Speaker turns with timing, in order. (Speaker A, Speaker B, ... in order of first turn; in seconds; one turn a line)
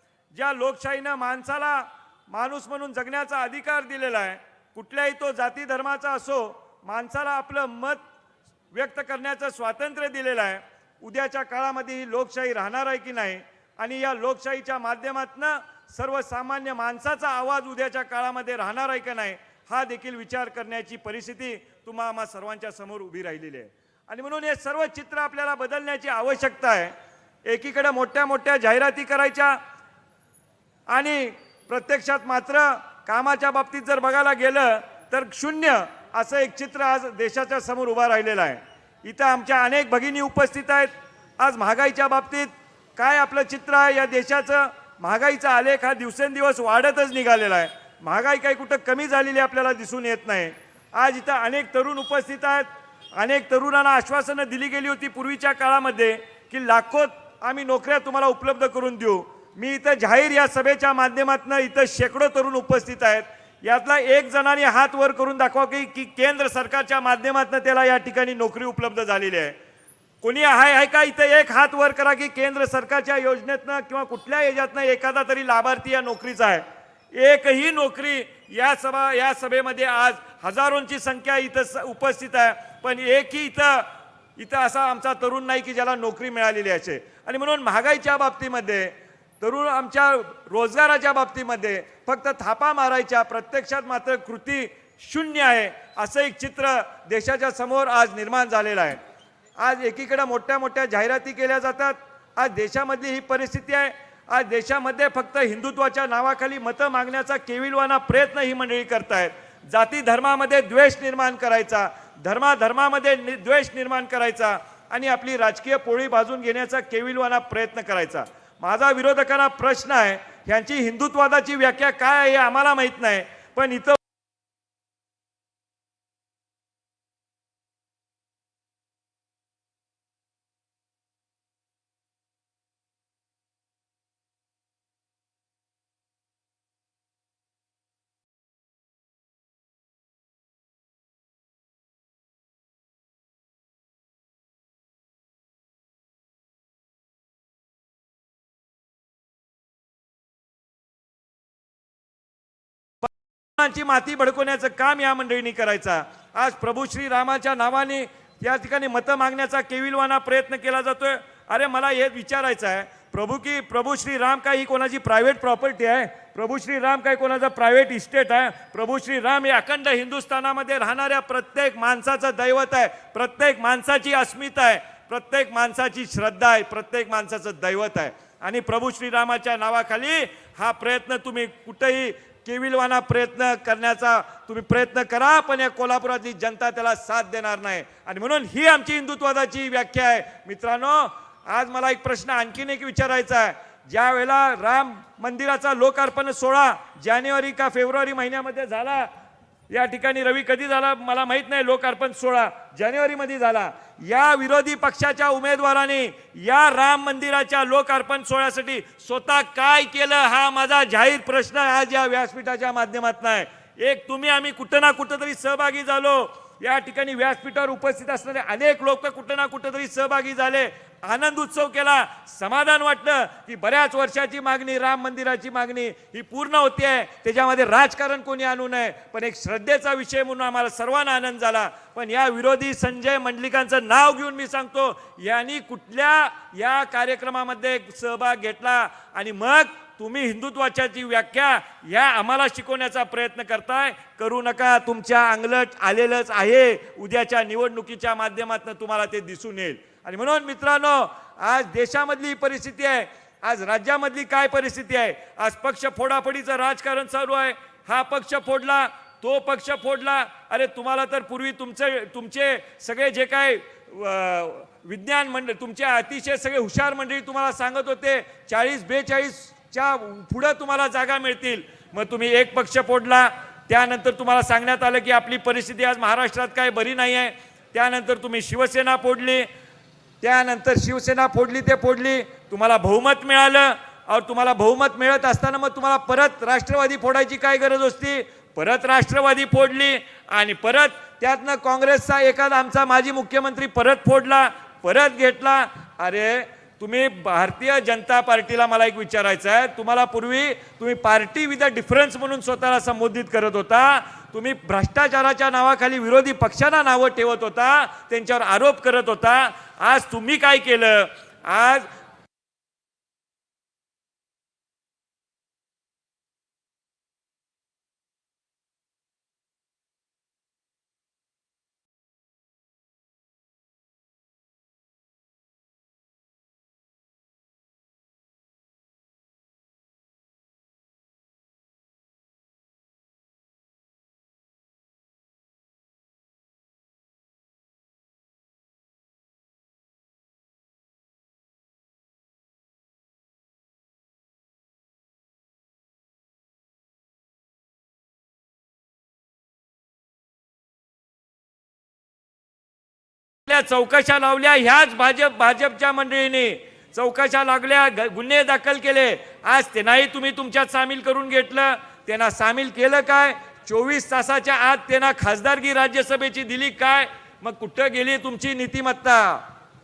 Speaker A: 0.3-8.0
Speaker A: 8.7-26.9
Speaker A: 27.4-29.6
Speaker A: 30.9-69.5
Speaker A: 70.2-99.0
Speaker A: 99.6-124.0
Speaker A: 153.0-199.1
Speaker A: 199.7-279.5
Speaker A: 280.2-311.9
Speaker A: 353.4-369.4